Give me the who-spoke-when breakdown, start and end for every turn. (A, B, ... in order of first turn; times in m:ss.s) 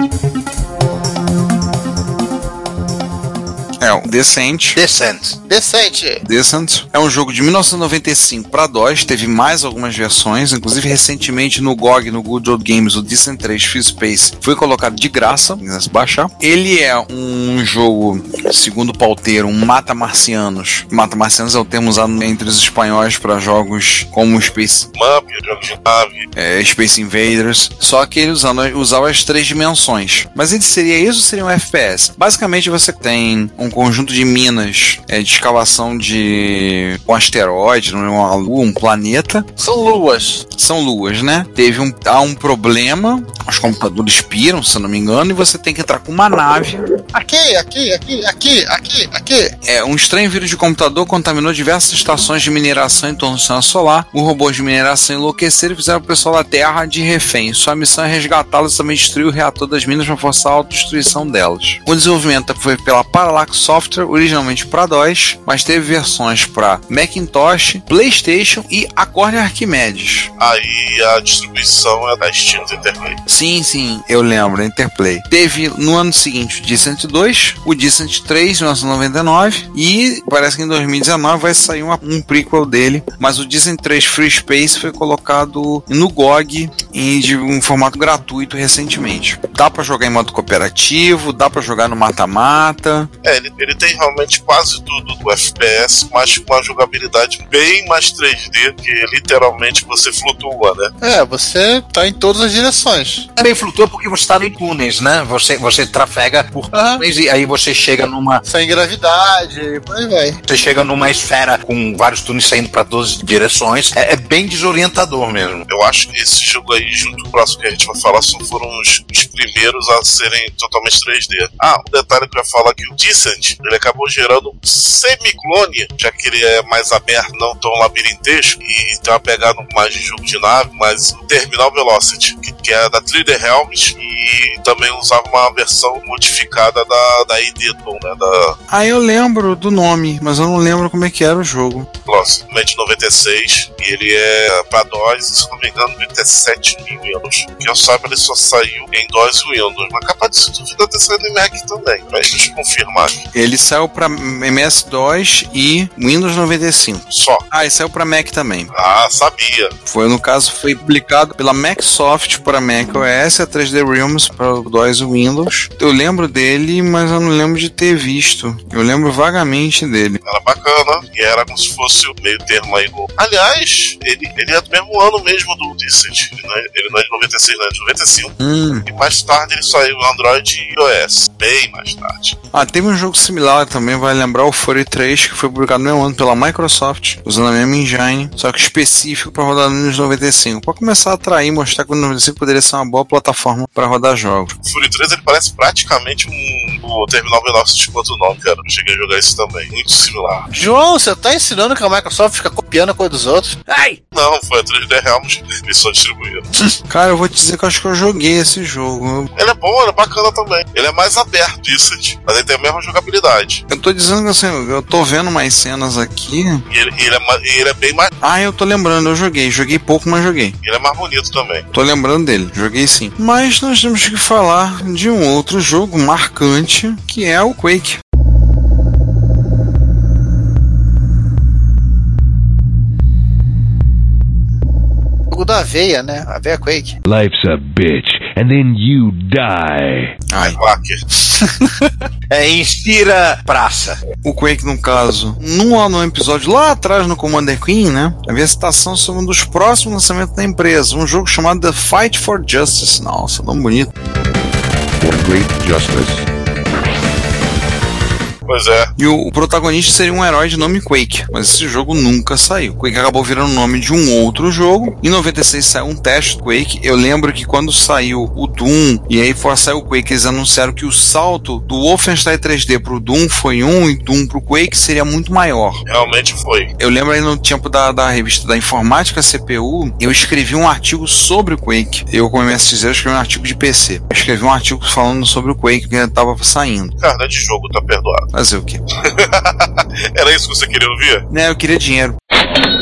0:03.8-0:04.8 A
0:04.8-0:05.4 B
0:05.5-0:06.2 C
0:06.2-0:24.9 A
0:24.9-0:26.3 D
0:26.4-0:39.5 A
0:39.6-0:40.4 C
0:40.5-0:46.8 A
0:47.1-0:49.5 C
0:49.6-1:10.3 A
1:10.4-1:13.2 D
1:13.3-1:33.1 A
1:33.2-1:40.9 D
1:41.0-1:43.3 C
1:43.4-1:48.4 B
1:46.7-1:47.0 C
1:48.4-1:50.4 C
1:50.5-1:55.6 B
1:55.7-2:18.6 D
2:18.7-2:21.9 A
2:22.0-2:33.2 D
2:33.3-2:38.7 A
2:37.1-2:37.4 D
2:38.7-2:39.7 D
2:39.8-2:50.2 A
2:50.2-2:58.3 D
2:58.4-2:58.8 A
2:58.9-3:02.4 D
3:02.5-3:14.5 A
3:14.6-3:20.4 D
3:20.5-3:23.6 C
3:24.1-3:26.4 D
3:26.9-3:29.3 A
3:29.3-3:33.6 D
3:33.7-3:36.6 A
3:36.7-3:38.1 D
3:38.2-3:40.6 A
3:40.6-3:41.6 D
3:41.7-3:48.0 A
3:55.3-3:57.0 C
3:57.0-4:00.2 E
4:00.3-4:00.6 A
4:00.4-4:01.0 D
4:01.4-4:01.9 C
4:02.3-4:04.0 B
4:04.2-4:13.9 A
4:15.0-4:16.2 E
4:18.5-4:18.9 D
4:19.0-4:35.8 A
4:35.9-4:36.7 D
4:36.8-4:46.9 A
4:47.0-4:48.3 D
4:48.3-4:48.8 A
4:49.0-4:51.2 D
4:51.3-4:52.2 A